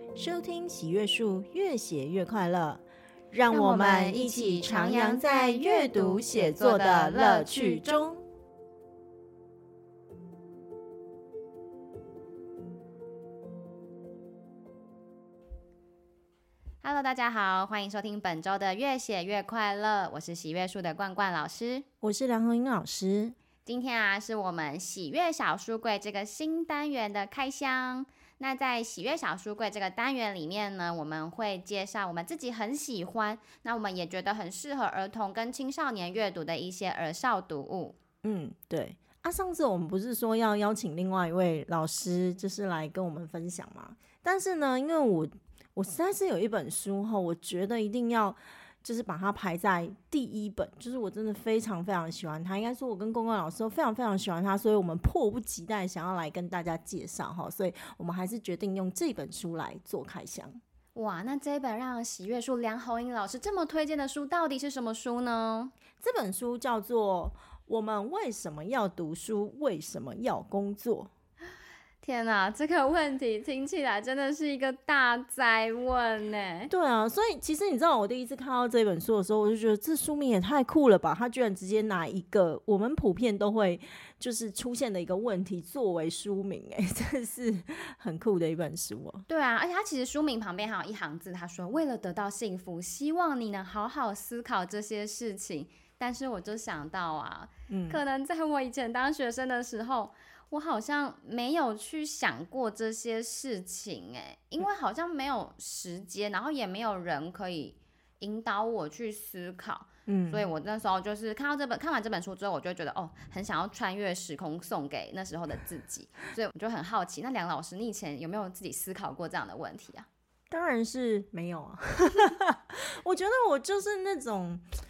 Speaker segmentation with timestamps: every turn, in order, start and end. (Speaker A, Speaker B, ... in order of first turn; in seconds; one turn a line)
Speaker A: 0.1-8.2
Speaker B: 3.5-8.0
Speaker B: 16.8-21.9
Speaker A: 22.0-23.4
Speaker B: 23.6-37.9
Speaker A: 38.2-60.6
Speaker B: 60.9-65.7
Speaker A: 66.0-71.1
Speaker B: 72.0-76.7
Speaker A: 76.7-89.2
Speaker B: 89.3-120.1
Speaker A: 97.7-98.0
Speaker A: 110.1-110.5
Speaker A: 120.5-124.6